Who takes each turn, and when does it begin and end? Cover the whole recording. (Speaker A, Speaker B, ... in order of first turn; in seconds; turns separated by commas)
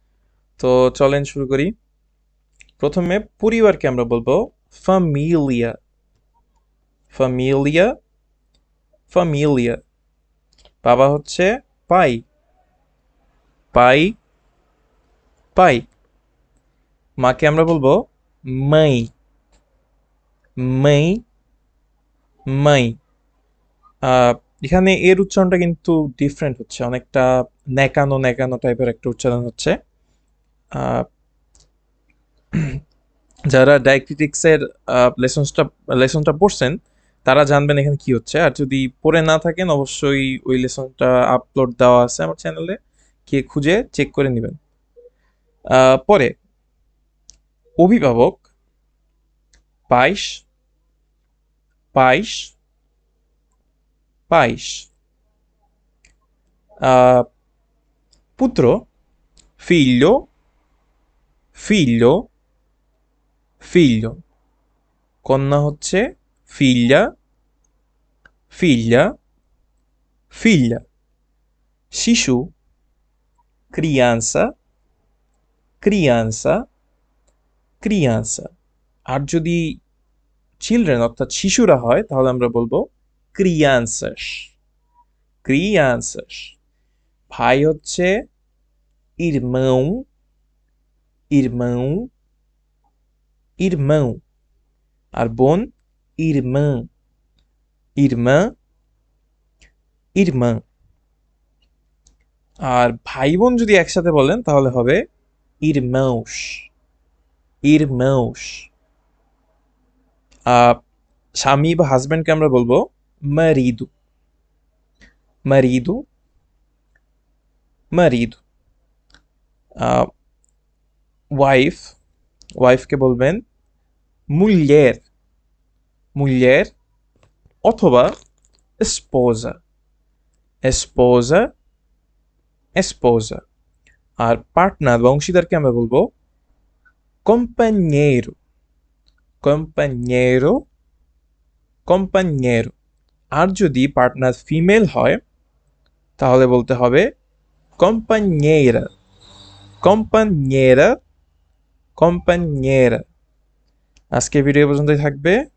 Speaker A: 0.6-1.7, Speaker A: 2.8-5.8, Speaker A: 7.1-8.0, Speaker A: 9.1-9.8, Speaker A: 10.8-12.2, Speaker A: 13.7-14.2, Speaker A: 15.5-15.9, Speaker A: 17.2-19.1, Speaker A: 20.6-21.2, Speaker A: 22.5-23.0, Speaker A: 24.0-29.8, Speaker A: 30.7-31.1, Speaker A: 32.5-32.8, Speaker A: 33.5-44.6, Speaker A: 45.7-46.4, Speaker A: 47.8-48.5, Speaker A: 49.9-50.5, Speaker A: 51.9-52.5, Speaker A: 54.3-54.9, Speaker A: 56.8-57.3, Speaker A: 58.4-58.9, Speaker A: 59.6-60.3, Speaker A: 61.5-62.3, Speaker A: 63.6-64.2, Speaker A: 65.2-67.1, Speaker A: 68.5-69.2, Speaker A: 70.3-70.8, Speaker A: 71.9-72.5, Speaker A: 73.7-74.5, Speaker A: 75.8-76.6, Speaker A: 77.8-78.5, Speaker A: 79.1-79.8, Speaker A: 80.6-84.5, Speaker A: 85.4-86.6, Speaker A: 87.3-88.2, Speaker A: 89.2-90.1, Speaker A: 91.3-92.1, Speaker A: 93.6-94.2, Speaker A: 95.1-96.9, Speaker A: 98.0-98.5, Speaker A: 100.2-100.6, Speaker A: 102.6-105.0, Speaker A: 105.6-106.7, Speaker A: 107.6-108.7, Speaker A: 110.5-110.8, Speaker A: 111.3-113.9, Speaker A: 115.5-116.0, Speaker A: 117.9-118.4, Speaker A: 119.8-120.1, Speaker A: 121.3-122.0, Speaker A: 122.6-123.4, Speaker A: 124.3-125.0, Speaker A: 126.1-126.7, Speaker A: 127.6-128.1, Speaker A: 128.8-129.6, Speaker A: 130.6-131.5, Speaker A: 132.7-133.4, Speaker A: 134.2-136.1, Speaker A: 137.2-138.3, Speaker A: 139.4-140.7, Speaker A: 141.8-142.7, Speaker A: 143.3-145.2, Speaker A: 146.2-147.1, Speaker A: 147.8-148.9, Speaker A: 149.8-151.0, Speaker A: 151.9-153.0, Speaker A: 154.1-155.4